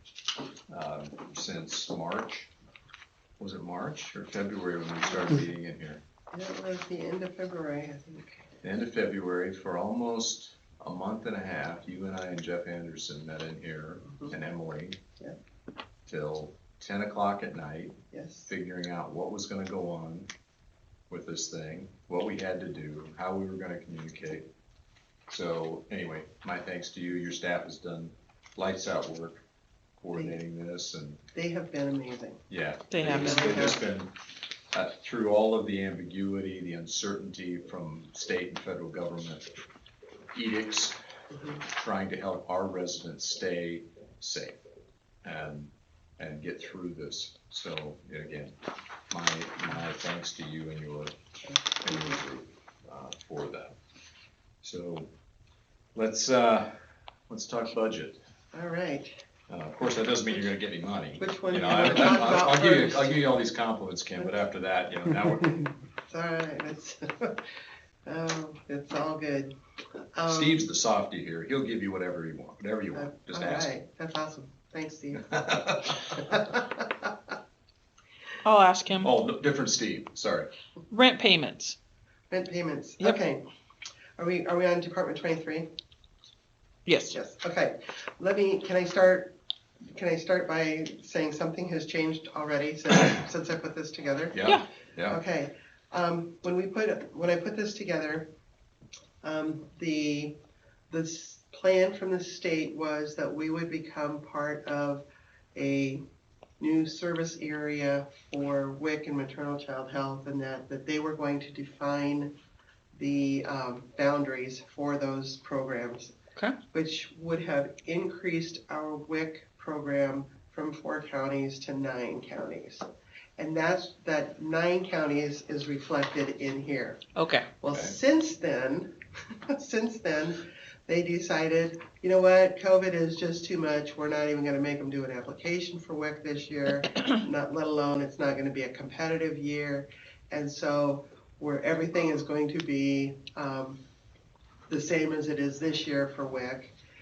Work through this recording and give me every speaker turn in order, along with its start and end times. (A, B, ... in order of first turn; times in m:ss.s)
0:00.7-0:02.5 A
0:03.4-0:06.0 A
0:06.3-0:08.4 B
0:08.6-0:15.0 A
0:14.1-0:14.3 B
0:16.0-0:20.3 A
0:18.1-0:18.5 B
0:21.1-0:24.5 A
0:25.3-0:29.4 A
0:30.0-0:31.2 A
0:30.1-0:30.4 B
0:31.3-0:32.4 B
0:32.5-0:34.2 A
0:32.9-0:33.7 C
0:33.0-0:33.8 B
0:34.7-0:39.5 A
0:40.3-0:41.0 A
0:41.3-0:41.6 B
0:41.7-0:44.6 A
0:45.2-0:48.6 A
0:49.1-0:51.1 A
0:51.8-0:53.8 A
0:51.8-0:52.2 B
0:54.6-0:55.1 A
0:56.0-0:56.8 A
0:57.3-0:58.2 A
0:58.5-0:59.1 B
0:59.5-1:05.7 A
1:01.2-1:03.3 B
1:06.1-1:07.4 B
1:08.0-1:09.5 B
1:10.1-1:10.6 B
1:10.3-1:13.7 A
1:12.9-1:17.1 B
1:15.2-1:16.3 A
1:18.4-1:19.1 C
1:19.0-1:20.5 A
1:20.9-1:21.8 C
1:22.3-1:23.4 B
1:24.2-1:25.7 B
1:26.8-1:27.2 C
1:27.1-1:29.3 B
1:29.9-1:34.4 B
1:34.3-1:35.2 A
1:35.1-1:38.3 B
1:39.2-1:40.4 B
1:40.9-1:46.0 B
1:46.6-1:52.3 B
1:52.9-1:56.1 B
1:56.7-2:02.9 B
2:03.4-2:07.0 B
2:07.1-2:07.5 C
2:07.6-2:08.9 B
2:07.7-2:08.0 A
2:09.5-2:23.8 B
2:24.7-2:26.8 B